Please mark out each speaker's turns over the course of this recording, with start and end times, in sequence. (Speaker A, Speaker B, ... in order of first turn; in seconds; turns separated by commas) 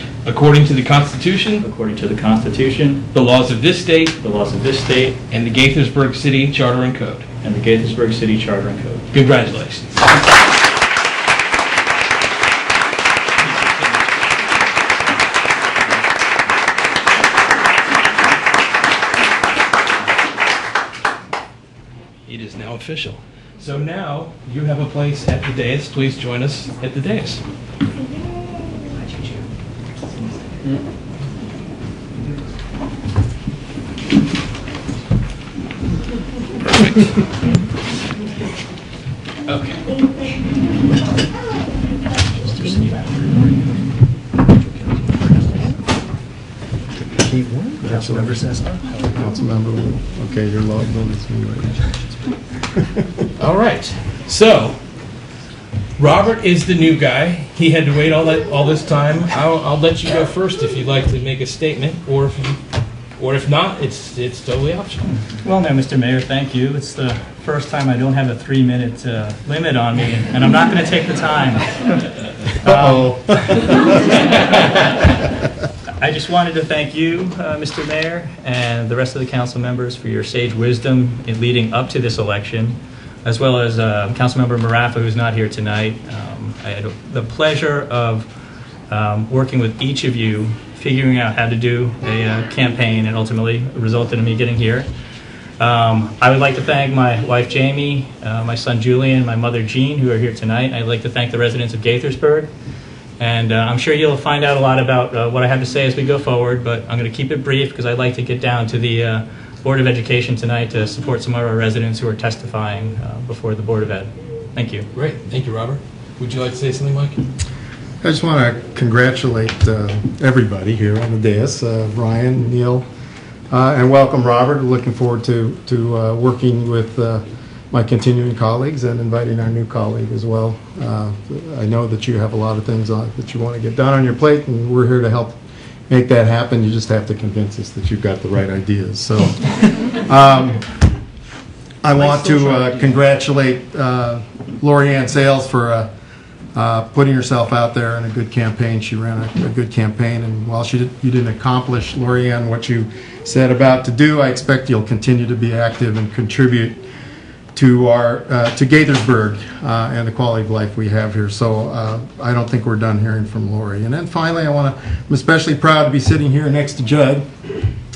Speaker A: 0.2-1.6, Speaker B: 1.6-3.1, Speaker A: 3.1-4.2, Speaker B: 4.2-5.2, Speaker A: 5.3-7.2, Speaker B: 7.4-9.1, Speaker A: 9.1-10.1, Speaker A: 13.4-14.3, Speaker A: 22.2-27.4, Speaker A: 39.5-39.8, Speaker B: 42.7-43.0, Speaker B: 47.8-48.8, Speaker C: 47.8-52.1, Speaker C: 52.7-53.2, Speaker A: 53.4-54.8, Speaker A: 56.0-62.6, Speaker A: 63.2-65.1, Speaker B: 65.4-72.0, Speaker B: 72.6-73.2, Speaker C: 72.6-74.1, Speaker B: 76.0-88.3, Speaker B: 88.9-94.9, Speaker B: 95.6-102.5, Speaker B: 103.2-114.9, Speaker A: 114.9-117.2, Speaker C: 118.0-122.9, Speaker C: 123.5-135.4, Speaker C: 135.9-140.7, Speaker C: 141.8-145.9, Speaker A: 141.9-143.0, Speaker C: 146.5-156.8, Speaker C: 157.5-167.2